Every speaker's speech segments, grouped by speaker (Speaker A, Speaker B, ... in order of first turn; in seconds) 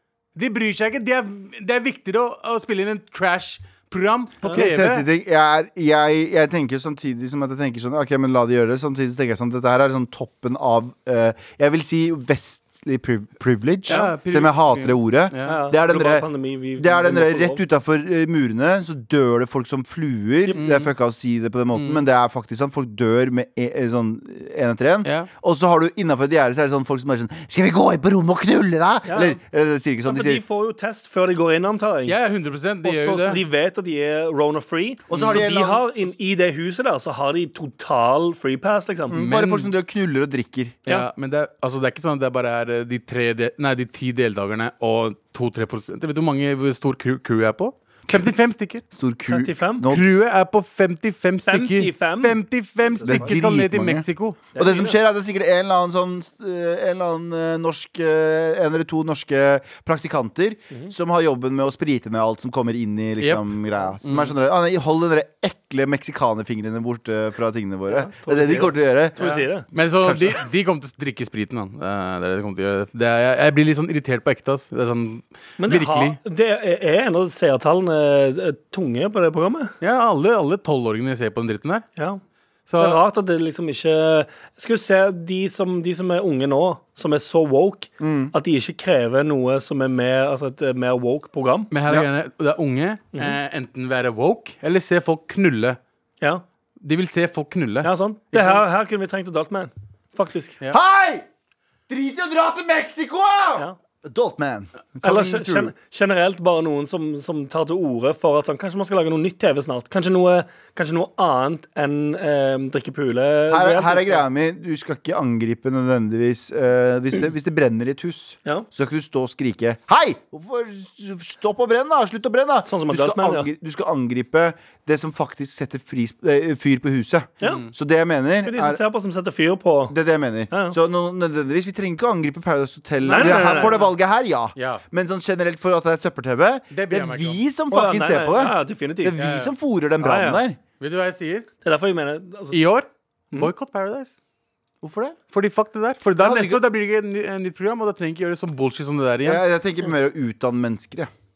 Speaker A: 0.4-5.1, 13.9-15.6, 20.5-20.9, 21.7-22.0, 25.1-25.3, 32.1-33.4, 35.1-35.5, 39.1-39.7, 40.9-48.8, 49.9-54.4, 63.2-64.3, 69.2-76.2, 79.8-81.8, 82.7-83.0, 91.7-95.8, 96.8-98.6, 127.4-127.7, 133.1-133.9, 134.6-134.8, 136.7-137.4, 139.2-139.5, 140.8-141.5, 142.5-144.2, 145.3-149.4
Speaker B: 4.4-4.7, 15.4-17.6, 29.1-29.4, 30.1-32.1, 32.8-39.2, 49.3-49.9, 51.5-53.4, 54.6-55.0, 67.9-69.7, 75.6-79.8, 82.0-82.2, 82.8-91.7, 97.8-100.6, 105.0-114.2, 122.7-123.5, 128.4-130.0, 130.5-130.8, 133.1-133.8, 137.7-139.2, 140.0-140.4, 141.6-142.6
Speaker C: 4.5-16.3, 16.8-30.4, 35.1-35.9, 39.1-40.8, 48.9-50.0, 53.0-69.2, 70.0-70.4, 88.0-88.3, 100.7-101.2, 101.9-105.7, 113.5-128.8, 129.9-140.6, 144.8-145.2, 146.2-146.6, 149.2-151.1